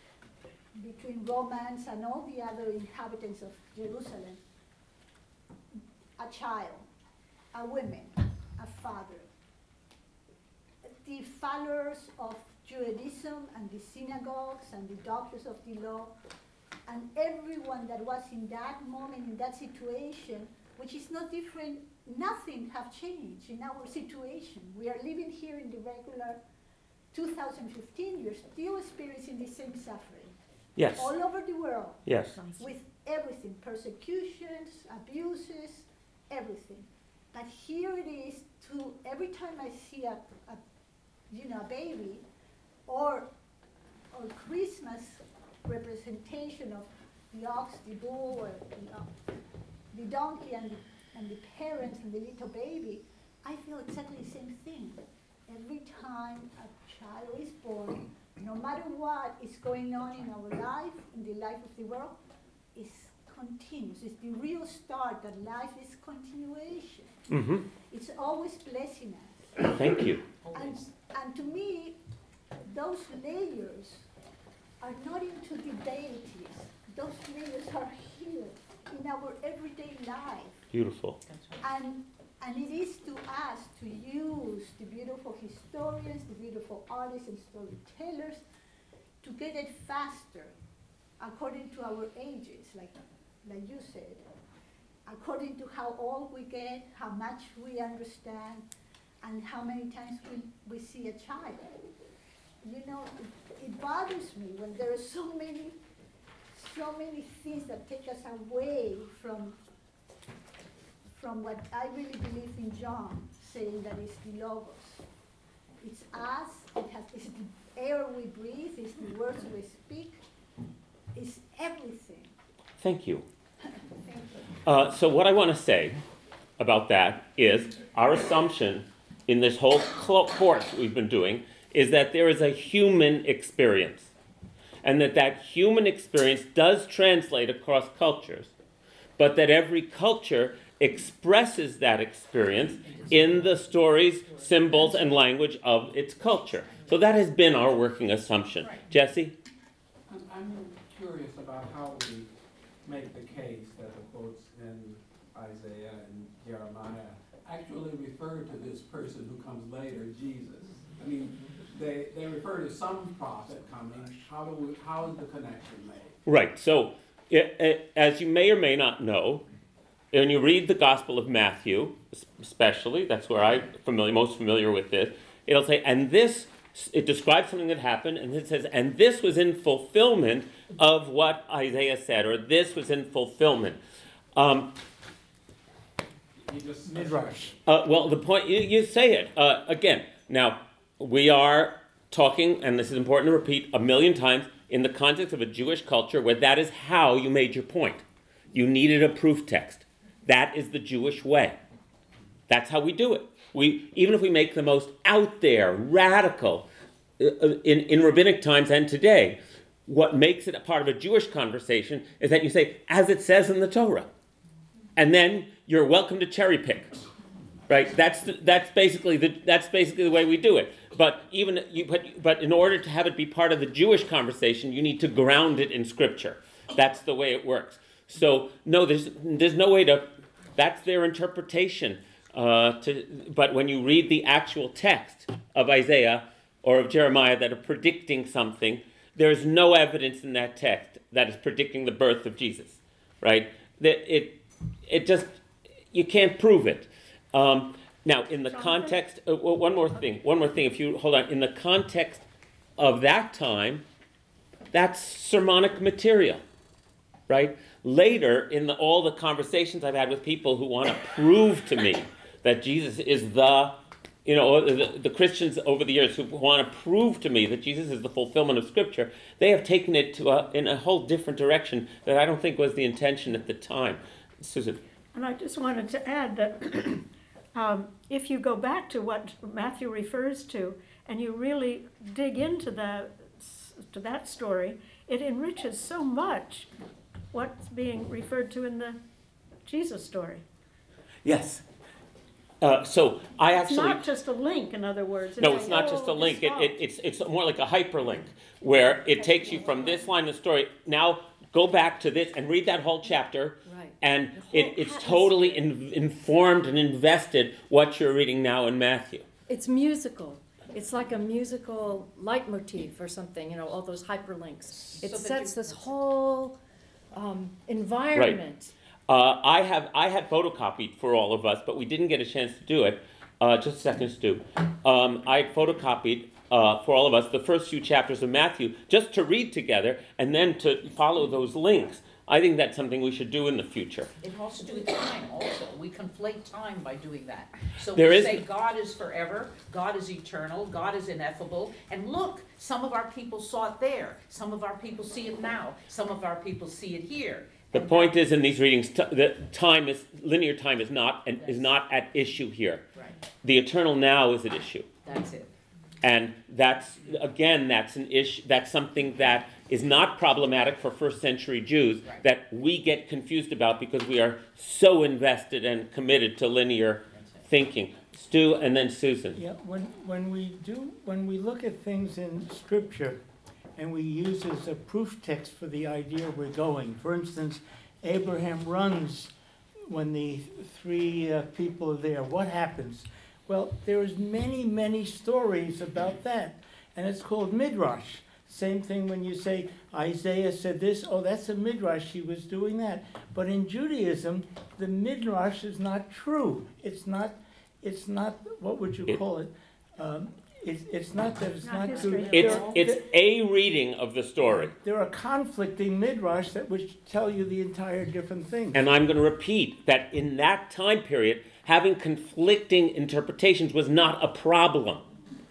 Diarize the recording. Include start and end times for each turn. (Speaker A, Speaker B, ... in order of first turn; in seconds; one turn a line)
Speaker A: 0.8-4.4
Speaker A: 6.2-6.9
Speaker A: 7.5-9.3
Speaker A: 11.0-16.1
Speaker A: 16.9-26.4
Speaker A: 27.1-30.3
Speaker B: 30.8-31.1
Speaker A: 30.9-32.0
Speaker B: 32.0-32.4
Speaker C: 32.4-32.7
Speaker A: 32.5-40.6
Speaker A: 41.3-42.2
Speaker A: 42.9-43.3
Speaker A: 44.1-49.1
Speaker A: 49.9-62.2
Speaker A: 62.7-67.2
Speaker B: 67.3-67.7
Speaker A: 67.9-69.8
Speaker B: 69.6-70.2
Speaker A: 70.5-72.0
Speaker A: 72.6-74.0
Speaker A: 74.8-80.6
Speaker B: 80.7-81.2
Speaker A: 81.6-88.4
Speaker A: 89.2-90.5
Speaker A: 91.2-94.2
Speaker A: 95.1-98.6
Speaker A: 99.2-101.8
Speaker A: 102.6-105.8
Speaker A: 106.5-109.6
Speaker A: 111.1-115.0
Speaker A: 115.8-120.2
Speaker A: 121.1-122.3
Speaker B: 122.8-123.2
Speaker B: 124.6-126.0
Speaker B: 126.6-134.1
Speaker B: 134.8-138.5
Speaker B: 139.2-149.3
Speaker D: 150.1-152.3
Speaker D: 152.8-166.1
Speaker B: 166.2-169.4
Speaker B: 170.1-183.8
Speaker B: 184.3-184.7
Speaker D: 186.4-187.5
Speaker E: 186.9-187.5
Speaker B: 187.7-201.6
Speaker B: 202.5-206.7
Speaker B: 207.2-214.1
Speaker B: 214.9-217.0
Speaker B: 217.7-245.3
Speaker B: 245.9-252.2
Speaker C: 248.5-248.9
Speaker B: 252.8-253.8
Speaker B: 254.7-256.4
Speaker B: 257.3-274.8
Speaker C: 275.1-286.7
Speaker C: 287.3-289.0
Speaker C: 289.6-290.4
Speaker B: 291.2-291.6
Speaker B: 292.6-294.0
Speaker C: 293.5-296.8
Speaker B: 295.4-309.2
Speaker F: 303.6-305.7
Speaker F: 309.5-316.6
Speaker G: 314.7-315.9
Speaker F: 317.1-318.7
Speaker B: 319.1-334.1
Speaker G: 334.2-348.1
Speaker B: 337.9-338.4
Speaker B: 347.7-352.8
Speaker G: 351.4-351.7
Speaker B: 353.4-354.9
Speaker G: 355.0-355.5
Speaker B: 356.0-369.4
Speaker E: 369.3-373.2
Speaker E: 373.8-379.3
Speaker E: 379.9-403.0
Speaker C: 401.6-402.9
Speaker B: 402.3-404.8
Speaker E: 404.7-408.9
Speaker B: 408.7-415.1